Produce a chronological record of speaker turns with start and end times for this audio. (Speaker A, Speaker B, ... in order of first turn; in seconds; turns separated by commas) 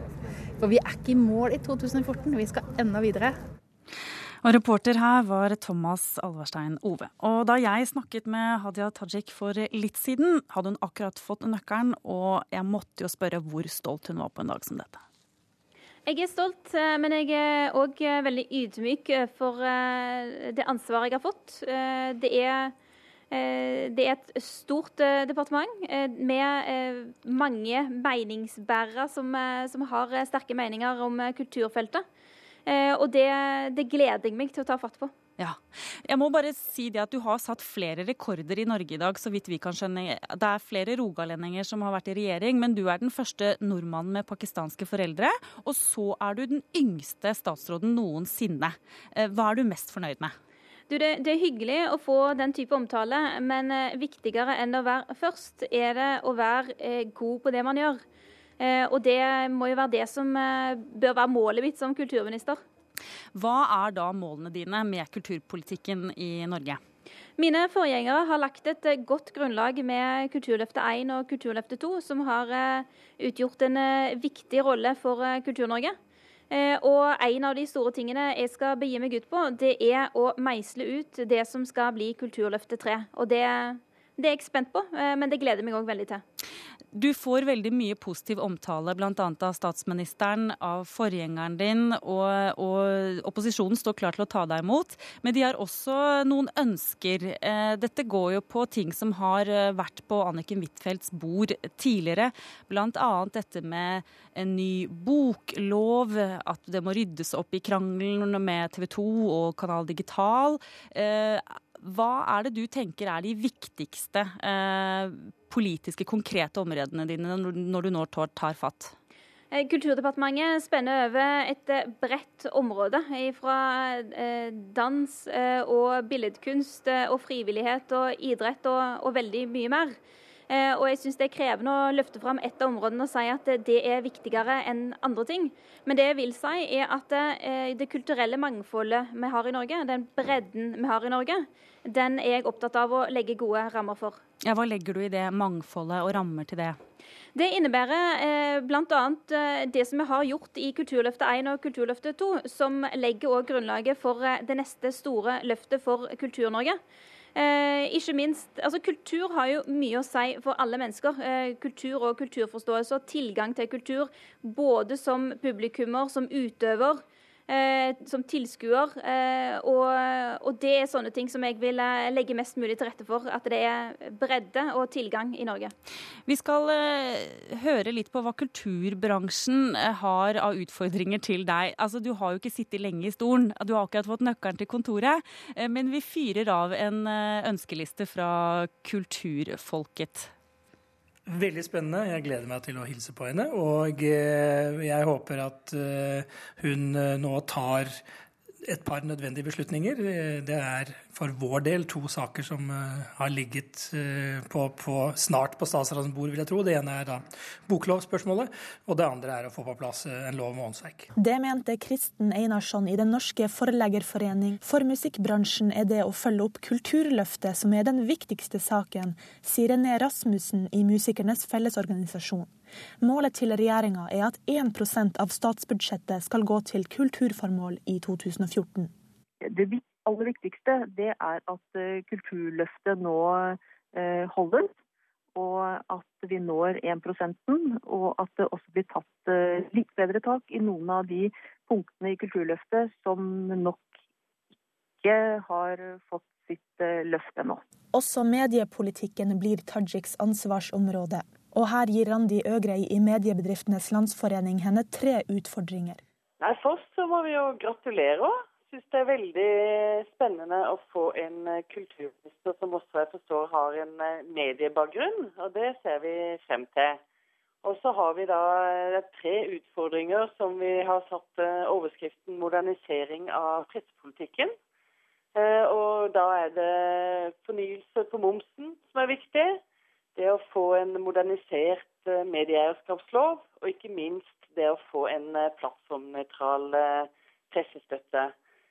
Speaker A: 0.6-3.4, Speaker B: 4.4-15.0, Speaker C: 16.1-22.7, Speaker C: 23.3-32.0, Speaker C: 32.7-35.1, Speaker B: 35.4-50.3, Speaker C: 50.9-58.0, Speaker C: 58.6-62.6, Speaker B: 63.4-66.8, Speaker C: 67.4-76.0, Speaker C: 76.5-86.2, Speaker B: 86.9-119.0, Speaker C: 119.5-130.0, Speaker C: 130.5-144.2, Speaker B: 144.4-146.8, Speaker C: 147.3-156.8, Speaker C: 157.3-175.7, Speaker B: 176.3-190.3, Speaker D: 191.3-198.0, Speaker D: 198.7-211.1, Speaker E: 211.2-228.9, Speaker F: 229.5-234.7, Speaker F: 235.4-243.9, Speaker F: 245.0-247.6, Speaker E: 247.9-256.0, Speaker G: 256.4-267.0, Speaker G: 267.6-274.5, Speaker G: 275.4-279.6, Speaker G: 280.2-288.3